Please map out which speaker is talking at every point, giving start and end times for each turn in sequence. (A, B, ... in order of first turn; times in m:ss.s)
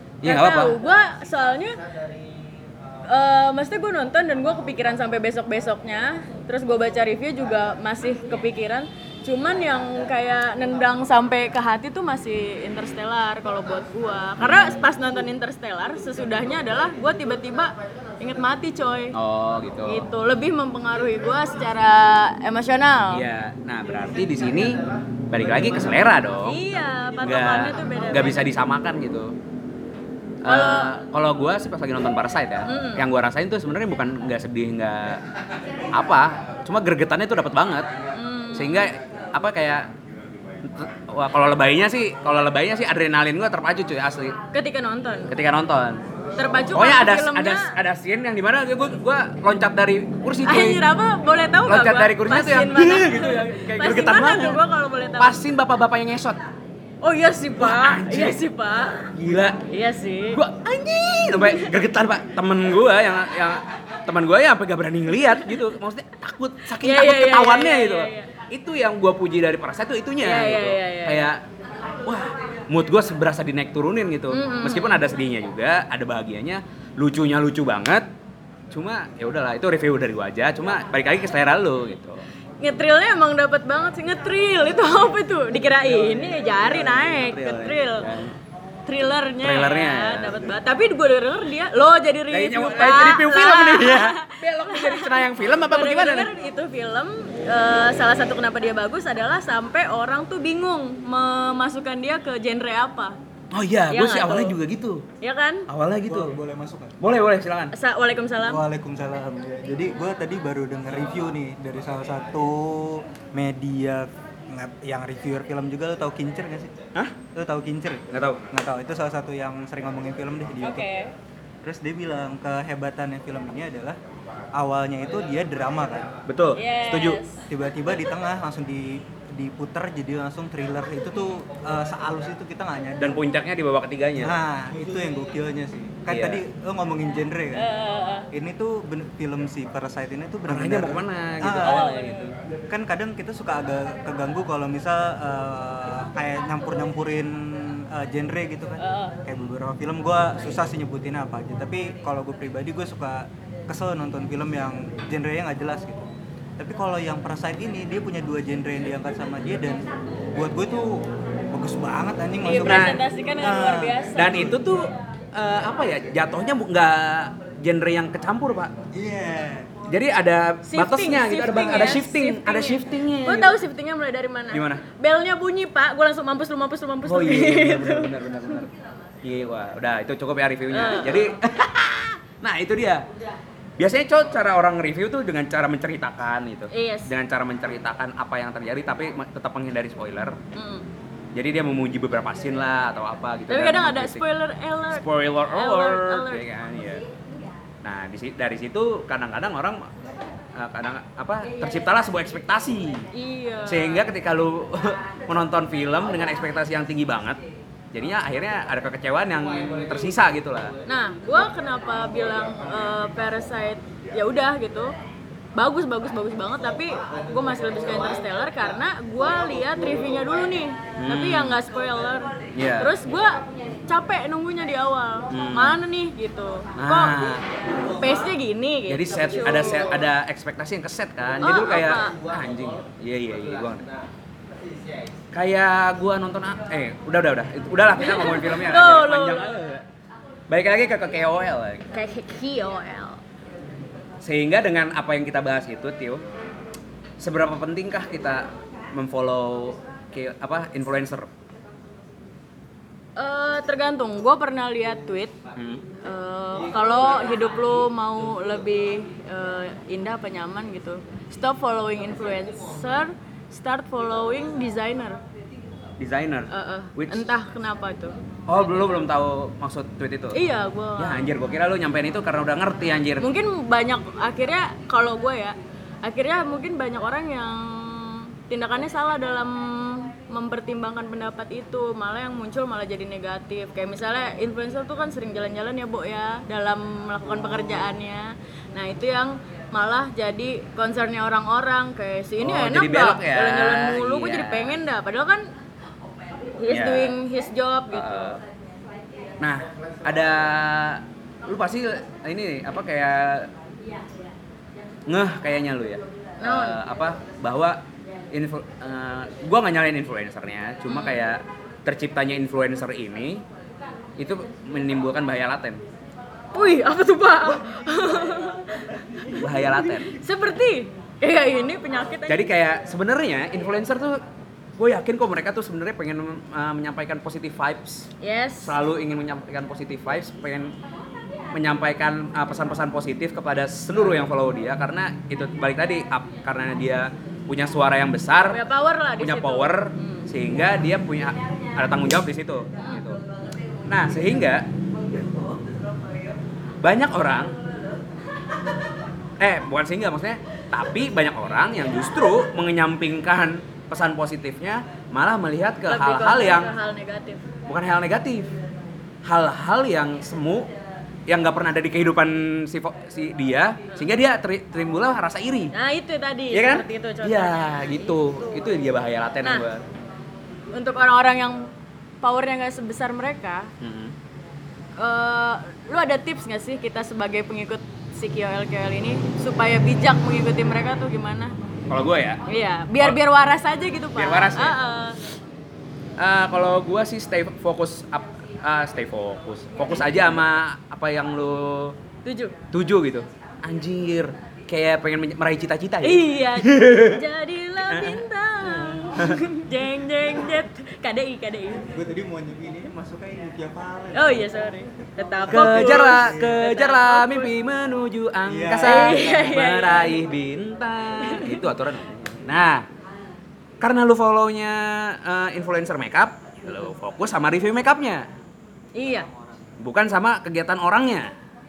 0:00.2-0:00.8 A
0:00.2-0:01.8 B
0:03.1-0:19.1 B
0:14.4-0:14.8 A
0:19.1-0:20.1 A
0:19.9-0:23.2 B
0:23.1-0:26.6 A
0:26.4-0:28.4 B
0:27.2-0:29.3 A
0:30.4-0:35.2 A
0:30.4-0:30.9 B
0:32.7-0:33.0 B
0:35.9-0:37.9 A
0:38.1-0:38.9 B
0:38.5-0:39.9 A
0:40.6-0:44.4 A
0:44.5-0:45.3 B
0:45.3-0:46.0 A
0:46.4-0:47.8 B
0:46.7-0:50.8 A
0:50.4-0:55.4 B
0:51.7-0:54.6 A
0:55.2-0:56.4 A
0:57.0-0:59.1 B
0:57.6-0:58.4 A
0:59.1-0:59.6 A
0:59.7-1:00.4 B
1:00.3-1:11.4 A
1:01.4-1:01.7 B
1:06.7-1:08.3 B
1:10.2-1:11.3 B
1:12.0-1:18.0 A
1:14.3-1:15.0 B
1:18.7-1:22.2 A
1:22.6-1:28.1 B
1:26.1-1:28.3 A
1:28.8-1:43.2 B
1:29.4-1:30.4 A
1:32.3-1:36.3 A
1:43.5-1:45.0 A
1:43.9-1:44.6 B
1:45.2-1:45.7 B
1:45.7-1:46.4 A
1:46.0-1:47.0 C
1:47.0-1:47.7 A
1:47.7-1:48.6 B
1:48.4-1:56.7 C
1:57.3-2:00.9 C
1:58.1-1:58.4 A
2:00.6-2:01.1 B
2:01.6-2:04.0 C
2:04.5-2:06.2 C
2:06.3-2:07.2 A
2:06.5-2:07.4 B
2:07.0-2:13.2 C
2:13.0-2:14.4 A
2:14.2-2:17.7 C
2:16.1-2:16.4 A
2:17.6-2:18.3 B
2:18.3-2:21.8 C
2:20.5-2:22.3 A
2:21.6-2:22.3 B
2:22.7-2:44.7 C
2:28.8-2:29.2 B
2:42.4-2:44.5 B
2:42.6-2:43.0 A
2:44.2-2:48.7 A
2:48.9-2:49.7 C
2:49.9-2:53.5 A
2:50.7-2:58.6 B
2:54.5-2:54.8 A
2:57.0-2:58.7 A
2:59.2-3:03.1 A
3:00.7-3:01.3 B
3:03.8-3:10.4 A
3:06.7-3:07.1 B
3:10.5-3:10.8 B
3:11.3-3:14.2 A
3:13.5-3:16.4 B
3:14.9-3:17.0 A
3:17.8-3:19.8 A
3:20.6-3:23.1 A
3:23.1-3:24.1 B
3:23.6-3:27.4 A
3:27.9-3:30.7 A
3:30.8-3:34.9 B
3:35.6-3:47.2 B
3:41.0-3:41.6 A
3:42.6-3:42.9 A
3:45.3-3:45.8 A
3:46.8-3:47.4 A
3:48.0-3:49.9 B
3:48.9-3:53.9 A
3:51.4-3:52.2 B
3:55.3-3:59.8 A
3:58.0-3:59.5 B
4:00.5-4:01.9 A
4:01.9-4:03.2 B
4:04.2-4:06.2 A
4:07.2-4:11.3 A
4:13.2-4:15.4 B
4:15.5-4:15.8 A
4:16.0-4:25.2 B
4:26.0-4:27.3 A
4:26.5-4:28.2 B
4:28.5-4:30.4 A
4:30.3-4:31.3 B
4:31.0-4:33.3 A
4:33.2-4:55.5 B
4:52.4-4:54.7 A
4:56.6-4:58.4 B
4:56.7-4:57.1 A
4:57.9-4:58.4 A
4:59.4-5:03.5 A
5:05.1-5:13.4 A
5:06.4-5:06.8 B
5:10.9-5:11.2 B
5:14.2-5:15.8 A
5:16.5-5:22.5 B
5:19.3-5:20.2 A
5:22.3-5:24.2 A
5:24.8-5:28.1 A
5:28.2-5:28.7 B
5:28.6-5:30.7 A
5:31.5-5:38.6 A
5:38.4-5:40.3 B
5:39.2-5:43.2 A
5:42.8-5:43.1 B
5:43.8-5:44.6 A
5:46.8-5:47.5 A
5:49.4-5:56.7 A
5:55.9-5:57.4 B
5:57.7-5:58.5 A
5:59.2-6:00.7 A
6:01.3-6:05.7 A
6:05.7-6:07.9 B
6:06.5-6:09.8 A
6:10.7-6:11.6 B
6:12.2-6:13.7 B
6:13.8-6:14.1 A
6:15.0-6:21.5 B
6:21.9-6:22.4 A
6:22.5-6:25.2 B
6:24.2-6:24.8 A
6:26.2-6:32.0 A
6:32.2-6:32.5 B
6:32.7-6:37.2 A
6:36.0-6:41.9 B
6:37.8-6:38.2 A
6:38.7-6:39.4 A
6:41.8-6:44.5 C
6:44.1-6:47.5 B
6:45.5-6:52.8 A
6:45.5-6:46.6 C
6:48.4-6:49.0 C
6:48.8-6:50.2 B
6:51.2-6:51.6 B
6:53.8-6:58.3 A
6:59.0-6:59.3 B
6:59.8-7:01.3 A